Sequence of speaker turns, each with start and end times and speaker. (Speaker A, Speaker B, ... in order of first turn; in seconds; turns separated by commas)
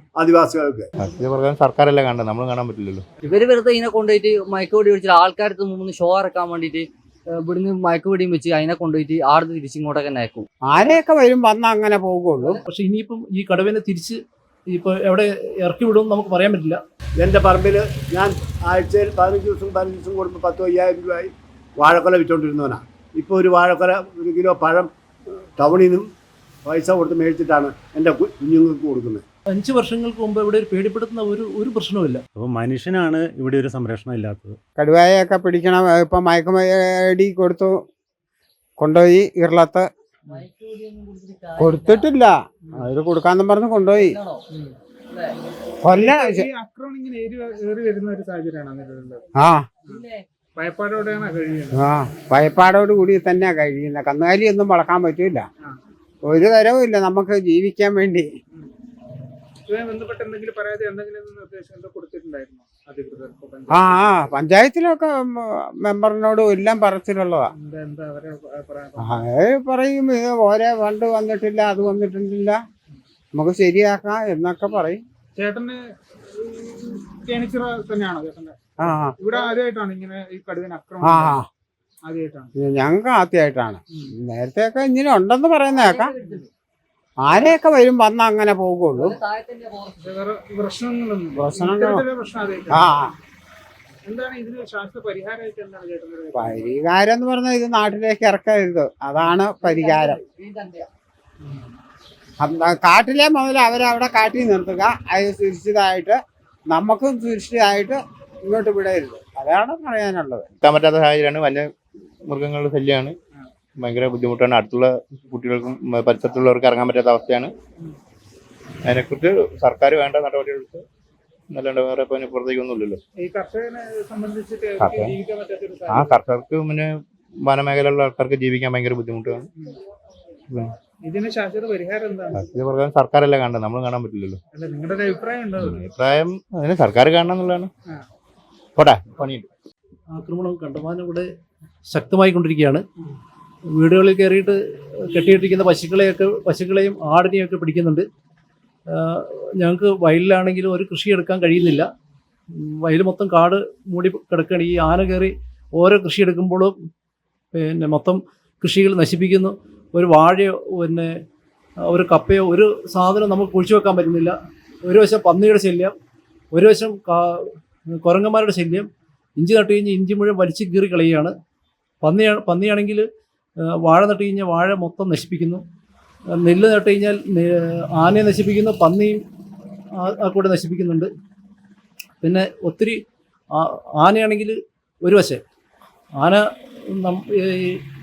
Speaker A: 0.2-0.8, Speaker B: 1.0-3.1, Speaker C: 3.2-6.9, Speaker C: 7.4-10.5, Speaker D: 10.7-12.5, Speaker E: 12.7-16.8, Speaker A: 17.2-24.9, Speaker A: 25.6-26.0, Speaker A: 26.7-29.2, Speaker E: 29.5-32.2, Speaker F: 32.4-34.6, Speaker D: 34.8-37.7, Speaker D: 38.8-39.8, Speaker C: 40.3-42.1, Speaker D: 41.7-42.3, Speaker D: 43.0-44.0, Speaker C: 43.9-44.4, Speaker C: 45.1-45.4, Speaker G: 45.9-49.2, Speaker C: 49.9-50.2, Speaker G: 50.6-51.9, Speaker D: 51.9-55.4, Speaker D: 56.3-58.0, Speaker G: 59.7-64.3, Speaker D: 64.5-65.0, Speaker D: 65.9-67.4, Speaker G: 67.5-69.2, Speaker D: 69.5-72.5, Speaker D: 73.4-75.0, Speaker G: 75.4-75.8, Speaker G: 76.3-78.6, Speaker G: 79.2-81.4, Speaker G: 82.1-82.5, Speaker D: 82.6-86.0, Speaker C: 85.7-86.5, Speaker D: 87.3-89.0, Speaker C: 88.9-90.0, Speaker G: 90.0-93.0, Speaker G: 94.1-96.7, Speaker D: 96.5-99.8, Speaker C: 99.6-100.9, Speaker D: 102.5-106.1, Speaker D: 106.7-110.5, Speaker B: 110.6-111.7, Speaker B: 112.2-113.2, Speaker B: 113.8-117.5, Speaker B: 118.8-120.8, Speaker B: 121.5-123.0, Speaker G: 123.2-126.1, Speaker B: 124.8-125.1, Speaker B: 125.9-129.5, Speaker G: 131.0-132.4, Speaker B: 132.3-134.4, Speaker G: 134.5-135.9, Speaker B: 135.6-137.7, Speaker B: 138.8-139.5, Speaker E: 140.1-141.3, Speaker E: 141.9-142.8, Speaker E: 143.7-148.1, Speaker E: 148.9-151.9, Speaker E: 152.5-156.8, Speaker E: 157.5-161.2, Speaker E: 161.8-165.9, Speaker E: 166.5-171.3, Speaker E: 172.0-175.6, Speaker E: 176.3-179.2, Speaker E: 179.9-181.1, Speaker E: 182.2-183.0, Speaker E: 183.5-185.4, Speaker E: 186.2-187.8